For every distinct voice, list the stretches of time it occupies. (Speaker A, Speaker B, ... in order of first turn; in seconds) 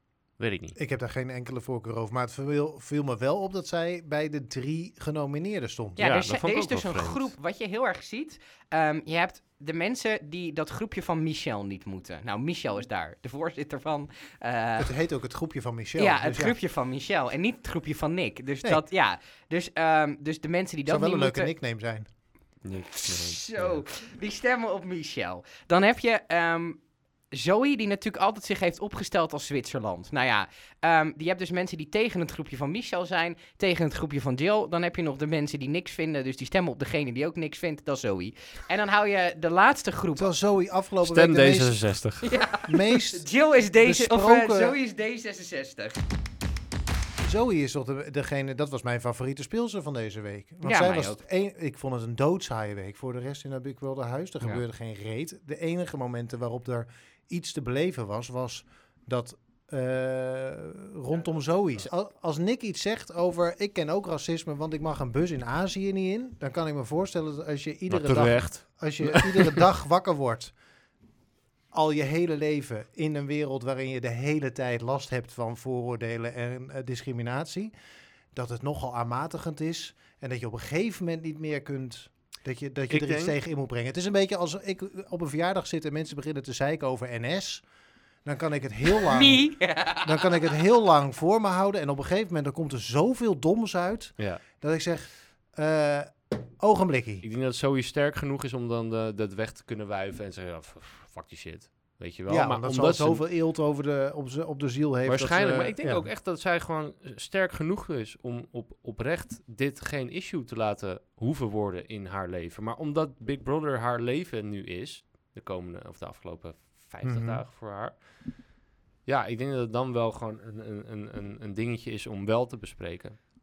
Speaker A: 0.4-0.8, 6.0-7.3, 22.6-23.8, 41.0-42.4, 67.9-69.6, 82.9-83.3, 97.2-103.2, 105.1-118.0, 119.1-123.2
Speaker B: 0.8-6.1, 14.8-16.6, 20.9-22.1, 40.1-41.9, 42.6-43.3, 43.8-44.8, 47.2-70.5, 71.7-77.7, 78.3-87.6, 88.2-97.2, 102.3-106.1, 117.0-117.4
Speaker C: 6.0-14.9, 16.0-21.5, 22.9-26.8, 27.3-40.3, 42.2-46.0, 50.6-51.2, 89.0-90.4